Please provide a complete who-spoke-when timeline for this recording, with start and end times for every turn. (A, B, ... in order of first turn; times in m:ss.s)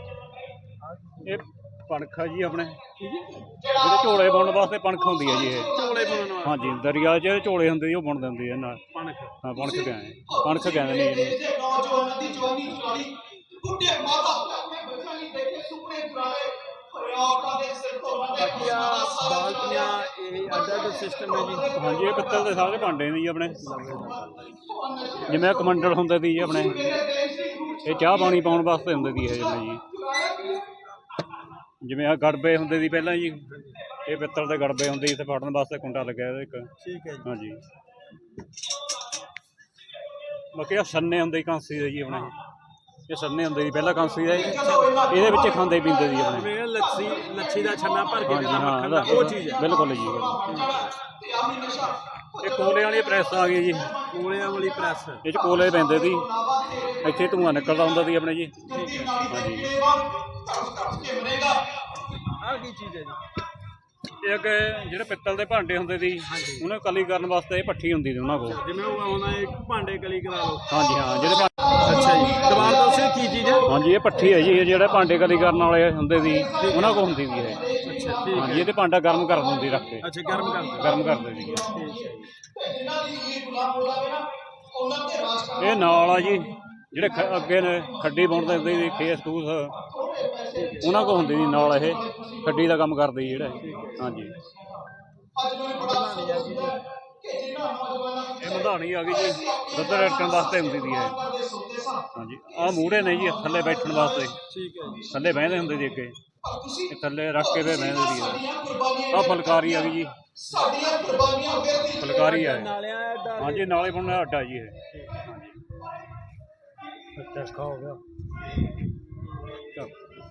0:00.9-0:01.4 A
0:01.2-0:02.8 B
0:03.0-0:03.4 A
0:03.6-0:05.7 B
0:05.7-0:06.8 A
0:06.4-0:08.8 B
0:08.9-0:09.4 A
0:09.4-0:11.6 B
0:11.8-0:13.3 A
0:13.8-0:18.1 C
0:18.2-0:21.7 A
0:21.7-0:23.6 B
0:23.6-0:24.7 A
0:25.3-0:27.1 B
0:27.2-0:27.7 C
0:27.8-0:29.8 B
0:31.8-0:33.4 B
0:33.5-0:33.8 A
0:34.0-0:36.7 B
0:36.8-0:37.3 A
0:37.2-0:37.6 B
0:40.5-0:42.3 B
0:42.1-0:42.3 A
0:43.1-0:46.5 B
0:44.5-0:45.2 A
0:46.2-0:49.7 A
0:48.2-0:50.5 B
0:50.4-0:51.0 A
0:51.5-0:51.7 C
0:52.3-0:53.9 B
0:54.1-0:55.3 A
0:55.2-0:56.3 B
0:56.9-0:58.7 B
0:58.6-0:59.3 A
0:59.3-1:00.0 B
1:01.1-1:01.5 C
1:02.4-1:03.2 A
1:04.2-1:08.6 B
1:06.2-1:06.7 A
1:08.4-1:10.7 A
1:10.7-1:11.5 B
1:11.4-1:13.7 A
1:12.5-1:12.8 B
1:13.6-1:17.7 B
1:16.6-1:17.0 A
1:17.8-1:18.7 A
1:18.3-1:20.1 B
1:20.0-1:21.0 A
1:20.7-1:21.7 B
1:21.7-1:22.3 A
1:22.8-1:24.2 C
1:24.9-1:25.4 C
1:25.5-1:29.8 B
1:30.5-1:30.9 A
1:30.8-1:34.4 B
1:33.5-1:34.1 A
1:35.7-1:36.8 A
1:37.4-1:38.1 C
1:38.4-1:41.3 B
1:41.5-1:41.9 C
1:42.0-1:44.4 B
1:44.5-1:45.1 A
1:45.1-1:46.2 B
1:46.9-1:50.2 B
1:50.4-1:53.9 A
1:51.7-1:52.7 B
1:53.4-1:55.6 B
1:54.9-1:55.2 A
1:57.2-1:58.0 B